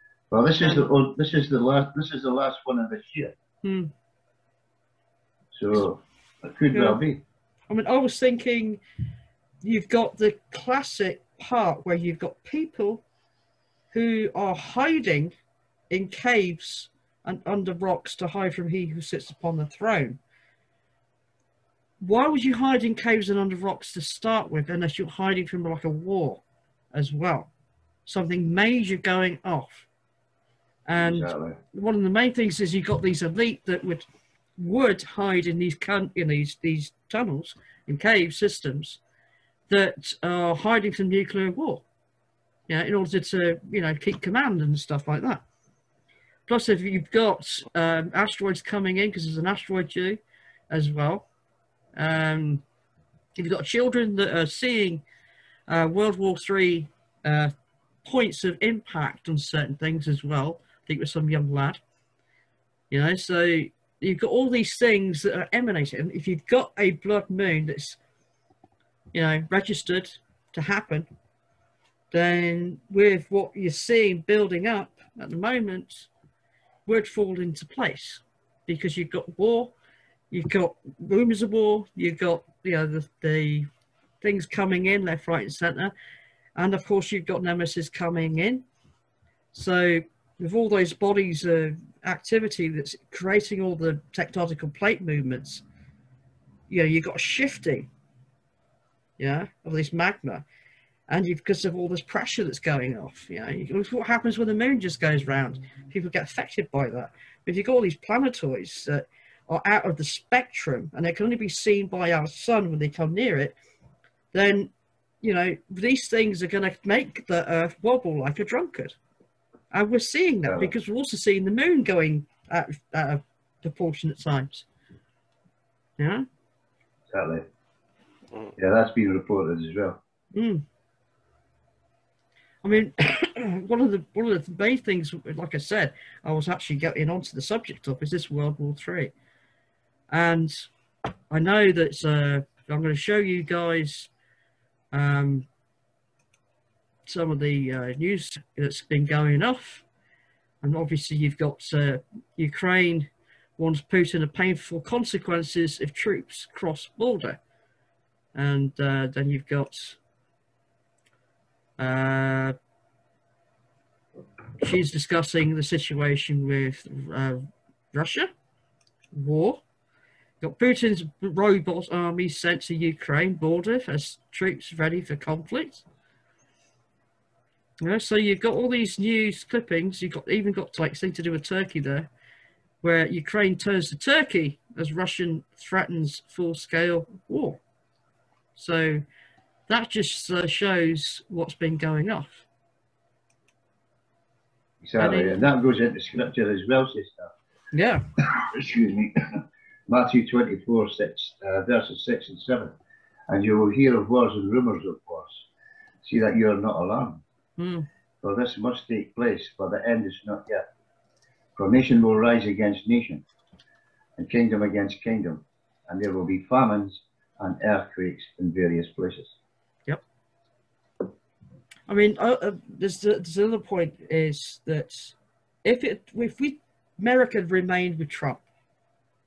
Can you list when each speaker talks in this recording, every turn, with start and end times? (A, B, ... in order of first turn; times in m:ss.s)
0:00.3-0:03.3 A
0:00.6-0:00.8 B
0:03.6-0:03.9 B
0:05.5-0:07.2 A
0:06.7-0:07.0 B
0:07.7-0:08.8 B
0:09.6-0:13.0 B
0:13.9-0:15.3 B
0:15.9-0:20.2 B
0:22.0-0:26.4 B
0:26.9-0:27.5 B
0:28.0-0:29.9 B
0:30.9-0:34.0 B
0:31.0-0:31.6 A
0:34.6-0:39.0 B
0:39.7-0:41.8 B
0:42.7-0:45.4 B
0:46.5-0:51.2 B
0:52.0-0:52.6 B
0:53.4-0:55.0 B
0:55.7-0:57.5 B
0:58.0-1:01.8 B
1:02.9-1:08.0 B
1:09.1-1:11.1 B
1:12.1-1:16.1 B
1:16.8-1:19.7 B
1:20.3-1:23.7 B
1:24.2-1:25.9 B
1:26.6-1:28.6 B
1:29.5-1:35.6 B
1:36.7-1:37.9 B
1:39.2-1:40.4 B
1:41.1-1:53.6 B
1:54.3-1:59.0 B
1:59.7-2:04.6 B
2:00.5-2:00.7 A
2:06.0-2:06.2 B
2:07.1-2:07.4 A
2:08.6-2:10.0 A
2:10.3-2:10.6 B
2:12.6-2:19.1 B
2:20.1-2:20.6 B
2:21.3-2:24.1 B
2:24.9-2:25.5 B
2:27.1-2:29.8 B
2:30.6-2:37.4 B
2:38.3-2:40.0 B
2:41.8-2:42.6 B
2:44.6-2:48.3 B
2:49.1-2:49.6 B
2:50.4-2:55.8 B
2:57.8-3:02.1 B
3:02.8-3:07.6 B
3:08.6-3:09.0 B
3:09.7-3:12.4 B
3:14.8-3:17.3 A
3:15.0-3:15.4 B
3:17.7-3:18.0 B
3:18.2-3:22.8 A
3:23.3-3:25.5 A
3:26.0-3:27.2 A
3:27.6-3:27.9 B
3:28.2-3:30.6 A
3:31.6-3:33.2 A
3:34.2-3:39.3 A
3:41.9-3:48.4 B